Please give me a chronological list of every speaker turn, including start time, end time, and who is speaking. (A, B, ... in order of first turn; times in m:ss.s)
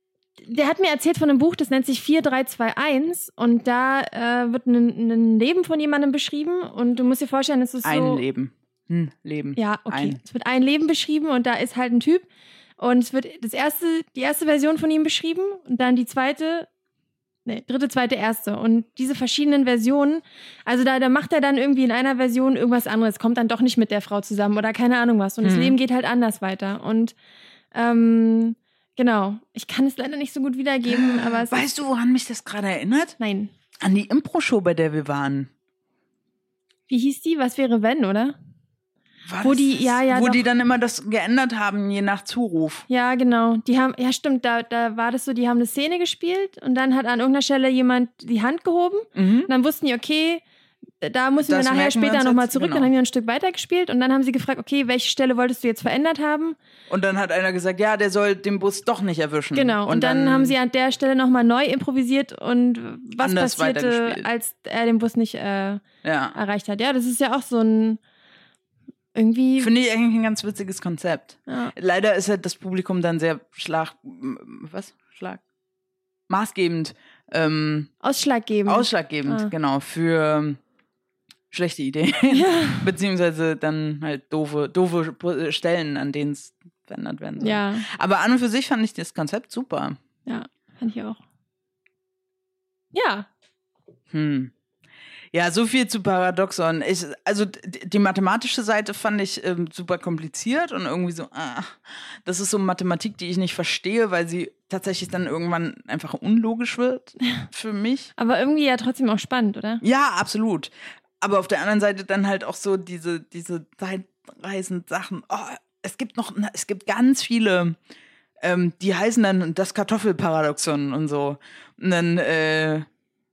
0:00.4-0:08.2 A
0:07.8-0:10.2 B
0:09.6-0:12.3 A
0:12.8-0:16.7 A
0:17.5-0:27.1 A
0:25.4-0:25.8 B
0:27.7-0:31.6 A
0:30.9-0:33.2 B
0:33.2-0:33.5 A
0:33.8-0:35.5 B
0:36.9-0:38.4 A
0:39.3-0:42.9 B
0:39.4-0:40.4 A
0:42.9-0:50.4 A
0:49.2-0:49.5 B
0:51.0-0:56.6 A
0:51.4-0:52.9 B
0:56.9-1:00.6 B
0:59.5-1:08.0 A
1:03.2-1:04.3 B
1:06.0-1:06.4 B
1:09.2-1:09.7 A
1:09.6-1:15.4 B
1:11.5-1:11.7 A
1:16.3-1:17.9 B
1:18.0-1:19.5 A
1:18.7-1:20.6 B
1:21.5-1:30.0 B
1:22.3-1:22.9 A
1:27.4-1:27.9 A
1:30.3-1:31.2 A
1:32.9-1:33.3 A
1:34.1-1:34.5 B
1:35.3-1:48.1 B
1:48.2-1:49.8 A
1:49.8-1:57.8 B
1:58.4-2:02.9 B